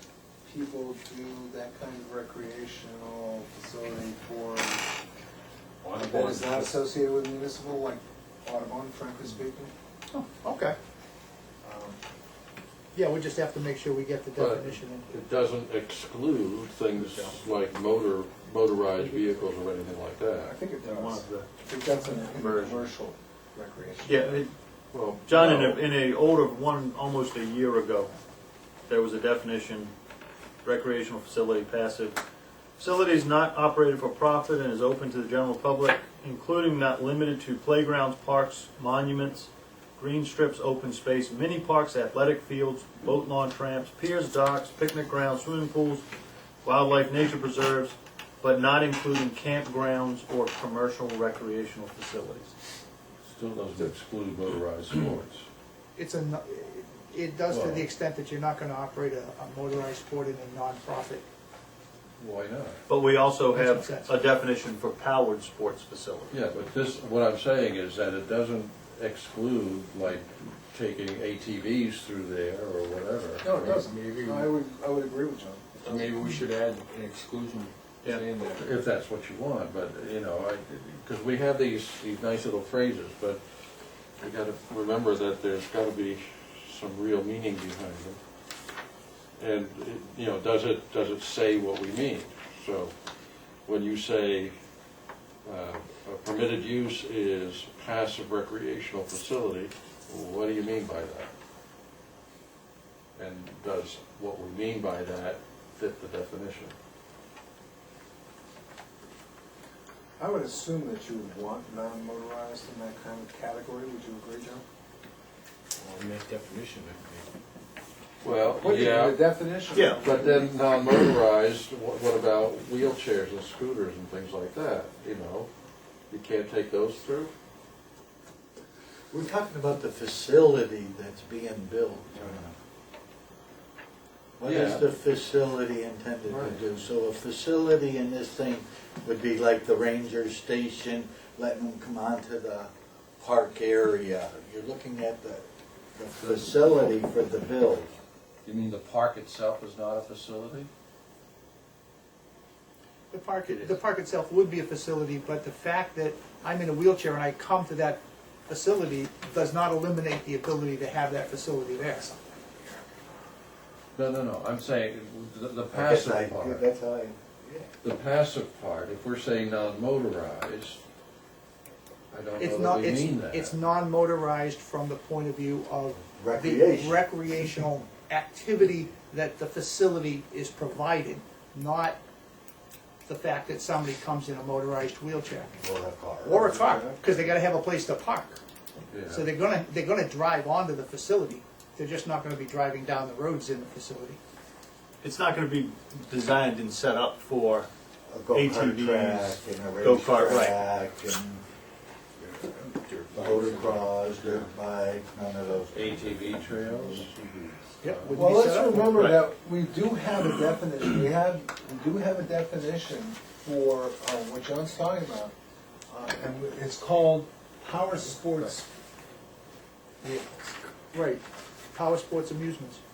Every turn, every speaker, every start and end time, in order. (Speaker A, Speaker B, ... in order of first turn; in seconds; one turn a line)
Speaker A: 0.4-4.9
Speaker B: 5.8-6.7
Speaker A: 6.0-9.7
Speaker C: 10.1-10.8
Speaker A: 11.6-12.0
Speaker C: 12.9-15.1
Speaker D: 14.4-20.5
Speaker A: 17.0-17.4
Speaker A: 20.4-24.4
Speaker E: 20.8-21.5
Speaker D: 22.5-22.7
Speaker E: 24.1-24.5
Speaker D: 24.9-25.9
Speaker E: 25.3-28.1
Speaker E: 28.9-29.9
Speaker E: 30.6-32.2
Speaker E: 32.8-46.0
Speaker E: 46.6-52.5
Speaker D: 53.2-55.5
Speaker C: 56.0-61.2
Speaker D: 57.5-57.9
Speaker D: 62.2-62.8
Speaker E: 62.9-66.4
Speaker C: 63.5-64.2
Speaker D: 66.3-73.8
Speaker A: 73.4-76.2
Speaker B: 73.5-74.5
Speaker B: 75.8-78.7
Speaker D: 78.5-88.2
Speaker D: 89.4-94.5
Speaker D: 95.5-101.3
Speaker D: 103.2-106.7
Speaker A: 110.2-114.6
Speaker B: 115.8-117.2
Speaker D: 118.2-119.4
Speaker A: 118.3-120.5
Speaker E: 119.7-120.1
Speaker D: 120.0-125.5
Speaker D: 126.1-127.3
Speaker F: 129.1-132.6
Speaker F: 134.4-147.9
Speaker D: 134.4-134.9
Speaker D: 136.3-136.6
Speaker D: 146.2-146.9
Speaker D: 148.4-150.7
Speaker C: 153.1-162.3
Speaker D: 153.5-153.8
Speaker D: 163.9-166.7
Speaker F: 165.7-167.7
Speaker D: 167.8-170.8
Speaker D: 172.1-173.6
Speaker C: 172.4-182.0
Speaker F: 176.1-177.6
Speaker C: 183.1-185.5
Speaker F: 185.6-186.9
Speaker C: 186.2-188.4
Speaker D: 188.9-189.3
Speaker C: 189.1-194.2
Speaker E: 195.0-197.7
Speaker F: 198.1-201.4
Speaker E: 198.3-200.6
Speaker D: 202.7-204.5
Speaker F: 203.1-207.6
Speaker D: 205.7-208.2
Speaker C: 207.8-209.0
Speaker A: 208.2-215.3
Speaker E: 208.9-209.2
Speaker A: 215.9-218.7
Speaker A: 220.0-220.7
Speaker C: 220.9-222.8